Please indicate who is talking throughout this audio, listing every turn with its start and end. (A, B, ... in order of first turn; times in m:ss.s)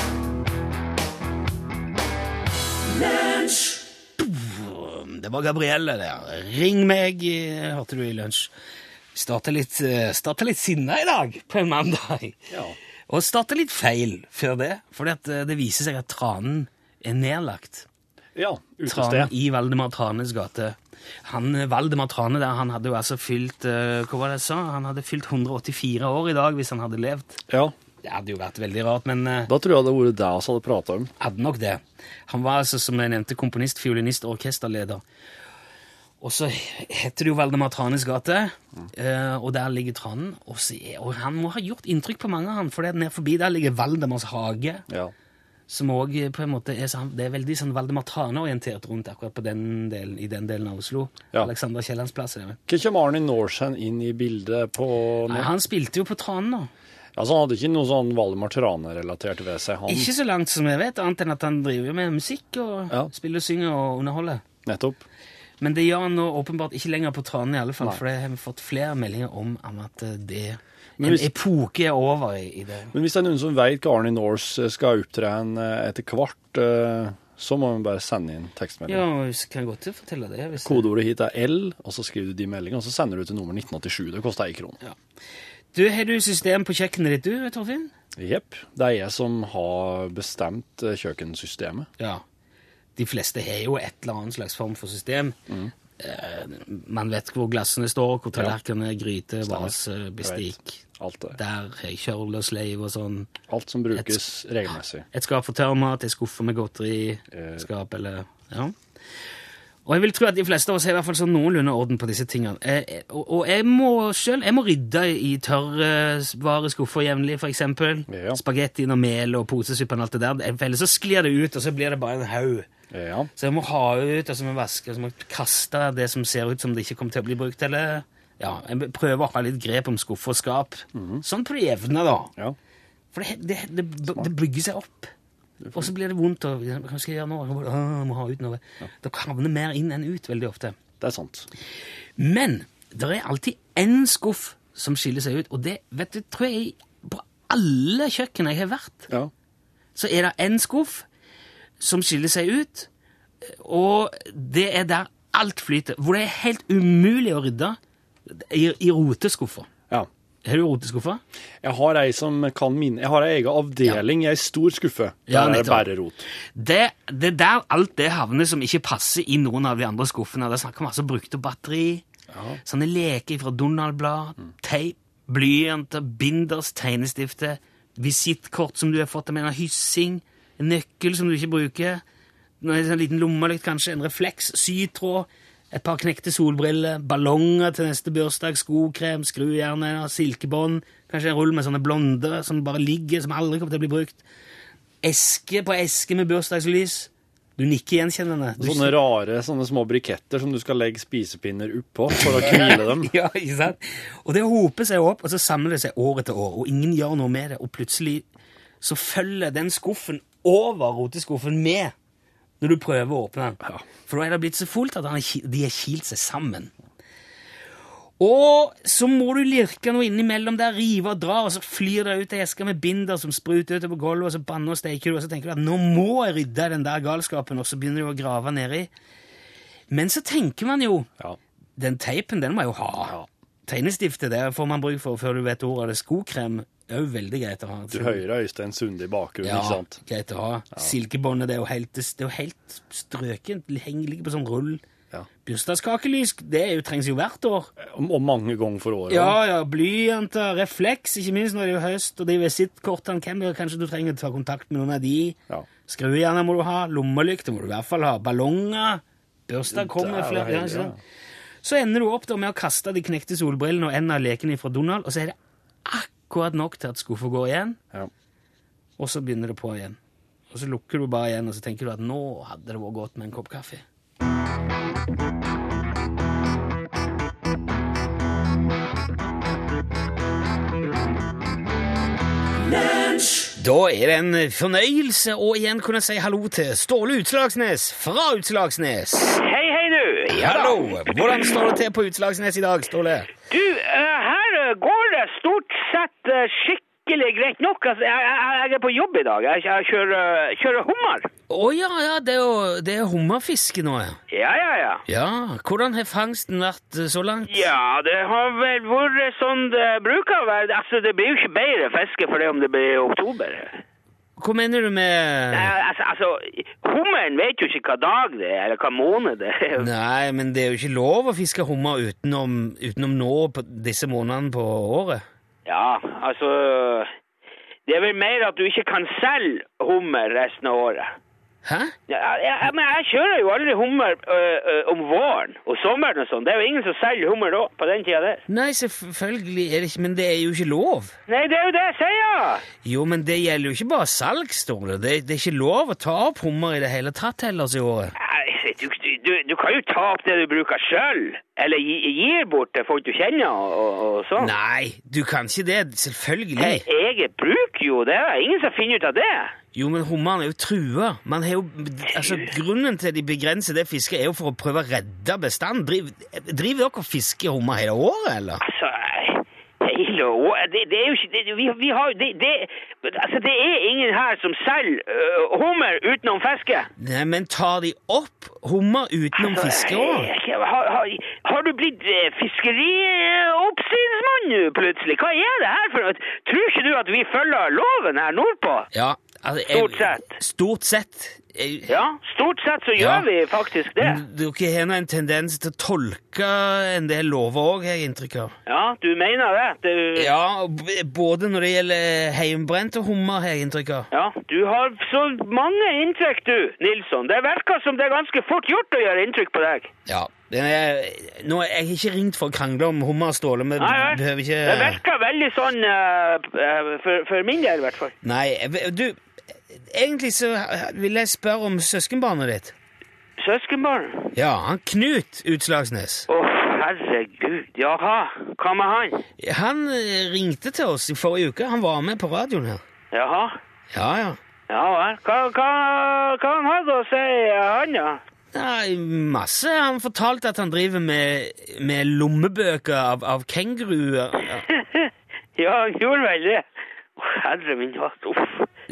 0:04.2-0:08.5 A
0:09.1-0:12.4 A
0:12.5-0:12.8 B
0:13.1-0:17.9 A
0:18.4-0:19.3 B
0:18.9-0:27.4 A
0:27.5-0:27.7 B
0:28.0-0:29.5 A
0:29.5-0:31.1 B
0:31.2-0:35.0 A
0:36.2-0:44.8 A
0:45.7-0:52.6 A
0:52.7-0:55.5 B
0:55.3-0:56.7 A
0:57.2-1:00.1 B
0:59.9-1:04.4 A
1:04.6-1:05.0 B
1:05.6-1:12.9 A
1:11.0-1:11.3 B
1:12.9-1:19.0 B
1:18.9-1:20.9 A
1:20.6-1:24.8 B
1:25.7-1:27.9 A
1:28.2-1:31.9 B
1:33.0-1:35.4 A
1:36.0-1:40.8 A
1:39.4-1:41.4 B
1:41.4-1:43.3 A
1:43.5-1:45.1 B
1:43.9-1:48.8 A
1:47.3-1:47.7 B
1:49.9-2:02.7 A
1:58.1-1:58.4 B
2:02.9-2:03.3 B
2:03.4-2:12.3 A
2:11.0-2:11.2 B
2:13.1-2:15.1 A
2:15.7-2:20.8 A
2:21.0-2:21.5 B
2:22.2-2:29.1 A
2:30.0-2:31.1 A
2:31.8-2:32.9 A
2:33.4-2:39.7 A
2:40.4-2:41.2 A
2:41.6-2:46.3 B
2:45.3-2:45.9 A
2:46.6-2:52.0 A
2:52.3-2:52.6 B
2:52.6-3:02.0 A
3:02.6-3:14.2 A
3:15.0-3:19.0 A
3:18.6-3:23.1 B
3:22.2-3:28.3 A
3:28.8-3:31.9 A
3:32.6-3:36.7 A
3:38.2-3:48.9 A
3:49.9-3:51.1 A
3:51.8-3:58.2 A
3:57.9-4:00.0 B
3:59.4-4:04.8 A
4:05.4-4:07.7 A
4:07.8-4:09.4 B
4:09.1-4:21.0 A
4:19.7-4:21.0 B
4:21.6-4:27.8 A
4:29.0-4:30.0 A
4:30.5-4:33.8 A
4:43.6-4:49.4 A
4:49.4-4:51.6 C
4:50.3-4:53.3 A
4:53.5-5:01.3 C
5:01.5-5:04.2 A
5:04.3-5:05.0 C
5:05.1-5:07.7 A
5:07.5-5:13.8 C
5:14.4-5:15.7 A
5:15.5-5:19.9 C
5:19.8-5:25.2 A
5:25.7-5:27.1 C
5:27.9-5:31.2 C
5:31.6-5:31.9 A
5:32.1-5:38.4 C
5:38.5-5:41.2 A
5:41.3-5:42.7 C
5:42.8-5:48.1 A
5:48.2-5:54.5 C
5:54.4-5:56.8 A
5:56.6-5:59.6 C
5:59.7-6:08.6 A
6:08.6-6:16.9 C
6:17.0-6:20.3 A
6:19.4-6:28.9 C
6:28.9-6:32.0 A
6:29.7-6:30.3 C
6:31.9-6:34.2 C
6:33.0-6:33.3 A
6:34.0-6:38.6 A
6:38.7-6:40.3 C
6:40.2-6:44.1 A
6:44.1-6:49.9 C
6:50.1-6:55.0 A
6:53.8-6:58.1 C
6:58.2-6:59.2 A
6:59.7-7:02.8 A
7:03.4-7:04.3 C
7:04.4-7:06.3 A
7:06.3-7:09.2 C
7:09.4-7:12.8 A
7:13.1-7:13.6 C
7:13.9-7:14.4 A
7:14.7-7:18.2 C
7:18.5-7:24.7 A
7:24.7-7:26.6 C
7:27.2-7:28.7 C